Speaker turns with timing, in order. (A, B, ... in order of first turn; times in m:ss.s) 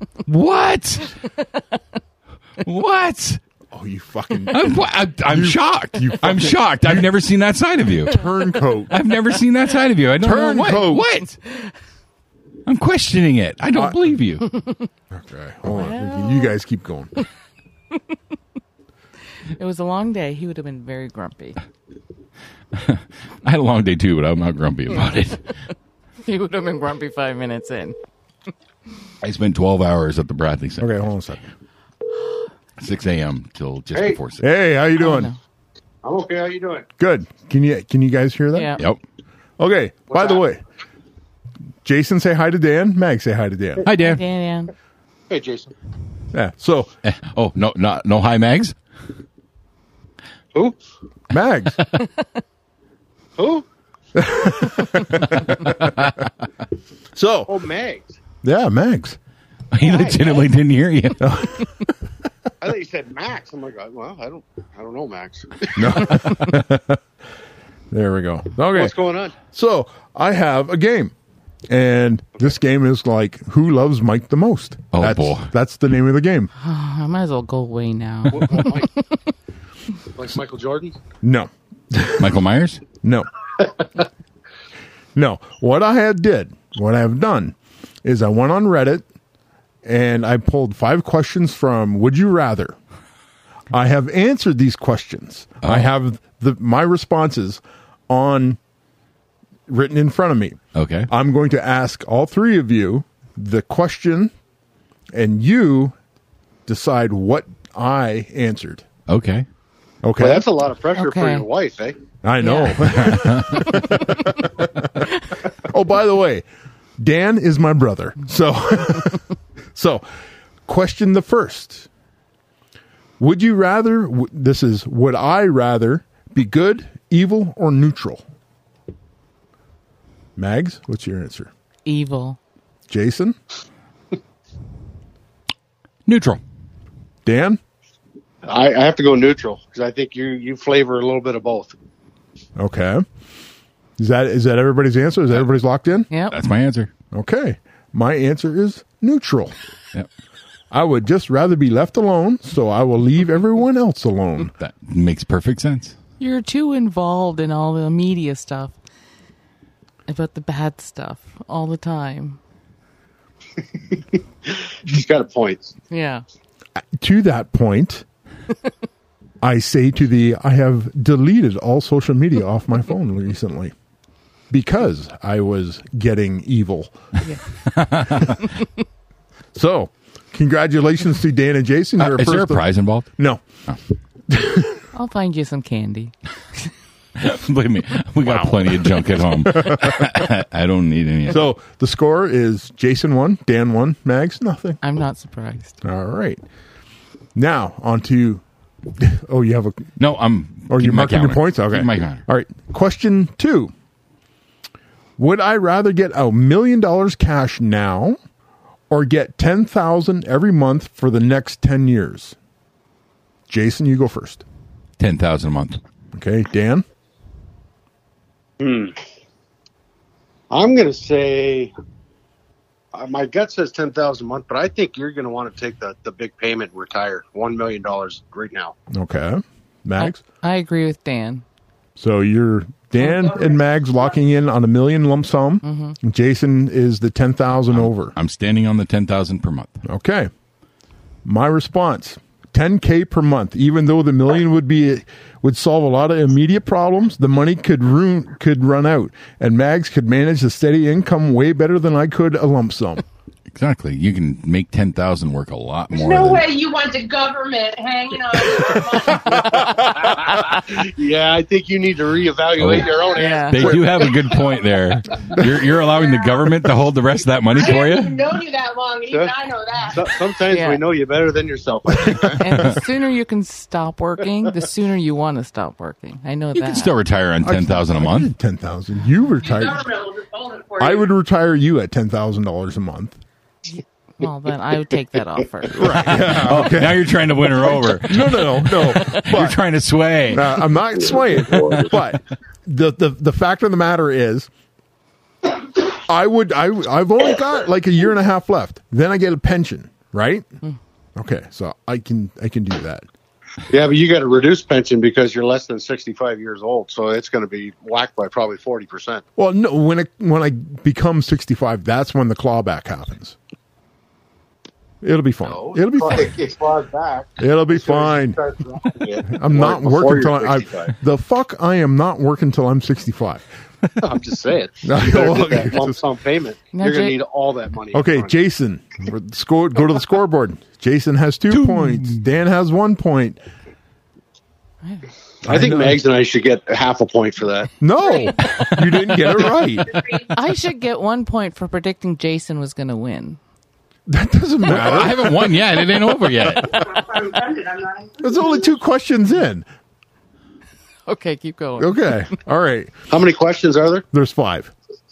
0:00.2-0:01.1 A
0:02.6-0:03.4 A
0:03.7-0:04.7 B
0:04.5-0:08.2 A
0:05.3-0:07.1 B
0:08.0-0:08.9 B
0:08.9-0:11.4 A
0:10.2-0:11.0 B
0:12.6-0:14.5 A
0:14.5-0:14.8 C
0:15.1-0:17.1 B
0:15.7-0:16.5 C
0:19.6-0:21.6 C
0:22.7-0:25.5 A
0:26.2-0:28.0 C
0:29.2-0:30.9 A
0:30.8-0:31.4 B
0:32.8-0:34.5 A
0:33.9-0:34.2 D
0:34.4-0:35.3 B
0:35.0-0:35.4 C
0:36.0-0:36.9 D
0:37.0-0:38.7 B
0:38.5-0:38.8 C
0:39.6-0:40.6 B
0:40.1-0:40.4 D
0:41.8-0:43.8 B
0:43.8-0:44.2 A
0:43.9-0:44.7 C
0:45.3-0:45.7 D
0:46.3-0:46.9 B
0:47.0-0:48.8 A
0:51.3-0:51.8 B
0:53.4-0:53.6 D
0:54.2-0:56.0 B
0:55.8-0:56.2 A
0:57.1-0:57.5 B
0:57.5-0:58.2 D
0:58.4-0:59.2 B
0:59.7-1:01.3 A
0:59.8-1:00.4 D
1:01.2-1:01.7 B
1:02.6-1:06.1 D
1:05.8-1:07.0 B
1:07.9-1:11.1 B
1:08.7-1:09.4 D
1:11.7-1:16.5 B
1:14.9-1:15.5 A
1:16.6-1:18.9 C
1:18.3-1:18.9 D
1:20.2-1:21.0 D
1:21.2-1:22.3 B
1:22.2-1:22.8 A
1:23.0-1:23.3 B
1:25.1-1:29.0 B
1:29.8-1:32.8 B
1:33.7-1:38.6 B
1:35.6-1:35.9 A
1:39.7-1:44.3 B
1:40.7-1:41.1 A
1:45.1-1:46.0 B
1:46.7-1:48.8 B
1:49.1-1:49.5 A
1:50.0-1:50.4 B
1:50.2-1:52.0 D
1:50.9-1:51.4 C
1:52.2-1:56.4 B
1:52.4-1:53.9 C
1:52.9-1:53.8 A
1:57.0-2:00.0 B
2:00.7-2:01.9 B
2:03.2-2:08.2 B
2:10.4-2:11.5 B
2:11.8-2:12.4 C
2:12.9-2:13.4 B
2:16.0-2:16.4 A
2:17.2-2:17.6 B
2:18.4-2:21.7 D
2:22.6-2:23.0 B
2:24.0-2:26.1 B
2:26.1-2:26.4 C
2:26.3-2:26.9 A
2:27.1-2:29.5 B
2:30.7-2:34.5 B
2:34.5-2:36.0 A
2:36.2-2:38.8 C
2:40.1-2:42.4 C
2:44.8-2:45.7 D
2:45.9-2:46.2 C
2:47.0-2:48.0 B
2:49.4-2:53.7 B
2:54.5-2:56.9 B
2:57.7-2:58.4 A
2:59.5-3:03.4 B
3:02.0-3:03.1 A
3:04.3-3:04.8 B
3:04.9-3:06.1 C
3:07.2-3:11.5 A
3:08.2-3:08.9 B
3:09.4-3:10.0 B
3:11.3-3:14.8 B
3:14.8-3:15.8 C
3:15.8-3:16.4 B
3:17.3-3:18.4 B
3:19.0-3:19.9 B
3:20.0-3:22.2 A
3:20.7-3:23.7 B
3:25.2-3:28.2 B
3:28.9-3:32.4 B
3:33.5-3:34.4 B
3:35.0-3:35.8 A
3:36.1-3:36.8 B
3:38.6-3:39.0 D
3:40.5-3:41.7 D
3:42.9-3:48.7 D
3:48.9-3:50.2 B
3:50.0-3:51.4 C
3:52.0-3:58.1 B
3:55.6-3:56.0 C
3:57.7-3:59.8 A
3:59.8-4:00.3 B
4:01.2-4:13.0 B
4:13.5-4:16.4 A
4:15.9-4:19.4 E
4:19.6-4:24.2 D
4:22.6-4:28.1 A
4:23.2-4:23.7 C
4:27.5-4:30.1 E
4:29.9-4:32.6 D
4:30.5-4:30.8 C
4:32.4-4:36.9 C
4:36.5-4:38.3 A
4:37.4-4:39.9 B
4:39.4-4:41.1 E
4:40.8-4:43.2 B
4:43.7-4:46.1 C
4:45.7-4:49.6 B
4:46.0-4:50.8 A
4:50.3-4:54.5 B
4:51.5-4:51.8 A
4:56.0-5:00.4 B
5:01.2-5:03.1 B
5:03.7-5:09.2 D
5:09.4-5:13.4 B
5:15.0-5:16.4 B
5:15.4-5:20.9 D
5:17.4-5:18.4 B
5:19.3-5:23.4 B
5:24.0-5:28.3 D
5:24.8-5:26.0 B
5:26.7-5:27.2 C
5:27.9-5:33.4 B
5:31.5-5:32.2 A
5:35.4-5:37.7 D
5:35.4-5:36.0 B
5:37.8-5:40.0 B
5:39.8-5:40.3 E
5:40.3-5:43.4 C
5:44.1-5:45.5 B
5:44.6-5:46.8 A
5:46.6-5:48.7 E
5:48.2-5:49.6 B
5:51.0-5:52.3 C
5:51.8-5:52.9 B
5:53.1-5:54.0 D
5:54.1-5:54.7 B